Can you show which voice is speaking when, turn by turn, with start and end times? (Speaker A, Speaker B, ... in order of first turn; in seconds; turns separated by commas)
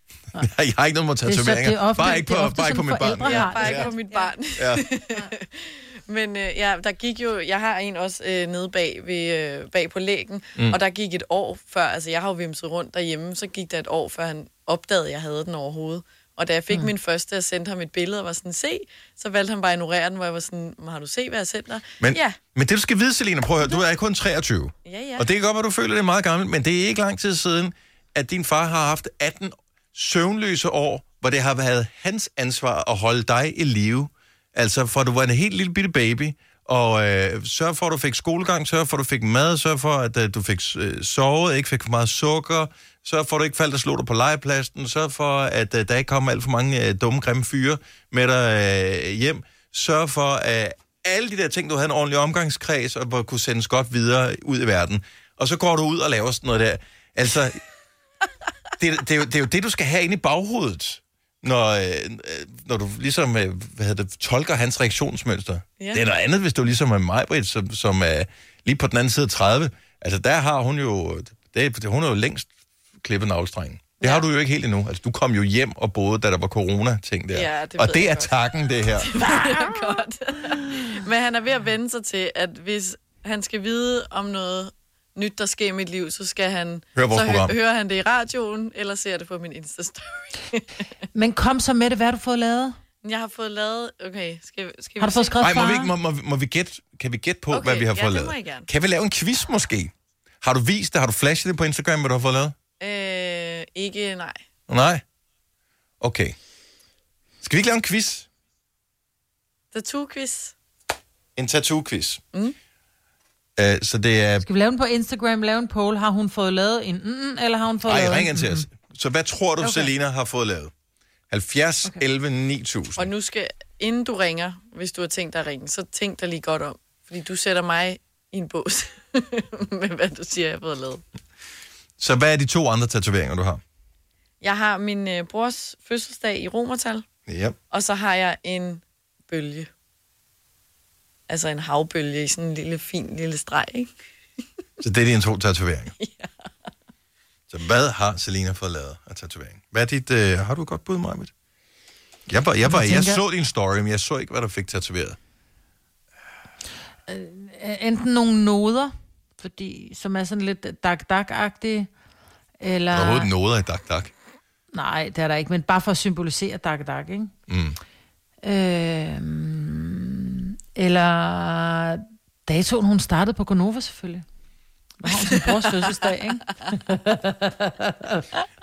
Speaker A: 0.4-3.9, Speaker B: 1.2-4.3, Speaker C: 3.2-22.4, Speaker A: 4.6-4.8, Speaker A: 22.0-57.6, Speaker C: 24.9-25.3, Speaker A: 58.8-72.5, Speaker A: 73.0-79.1, Speaker C: 74.0-74.3, Speaker C: 77.3-78.3, Speaker C: 79.0-90.9, Speaker A: 87.0-87.5, Speaker B: 91.1-92.8, Speaker C: 93.0-95.7, Speaker B: 95.0-95.9, Speaker A: 95.4-102.5, Speaker C: 97.5-98.7, Speaker C: 102.8-104.4, Speaker A: 104.7-105.0, Speaker A: 106.0-106.3, Speaker A: 107.4-108.3, Speaker C: 109.7-110.5, Speaker A: 111.4-112.2, Speaker A: 113.6-114.5, Speaker B: 114.4-118.7, Speaker A: 117.8-120.7, Speaker B: 119.6-119.9, Speaker A: 121.3-123.1, Speaker C: 123.0-131.0, Speaker A: 132.0-133.6, Speaker C: 134.4-137.1, Speaker A: 137.3-137.6, Speaker C: 137.7-139.7, Speaker C: 141.3-143.9, Speaker A: 144.8-145.9, Speaker C: 146.0-146.3, Speaker A: 147.5-151.3, Speaker A: 152.3-155.2, Speaker B: 152.7-153.2, Speaker B: 157.1-161.9, Speaker B: 162.6-163.3, Speaker A: 162.9-164.1, Speaker B: 164.7-167.3, Speaker A: 167.5-167.8, Speaker B: 168.4-174.2, Speaker B: 175.0-178.2, Speaker C: 175.3-175.9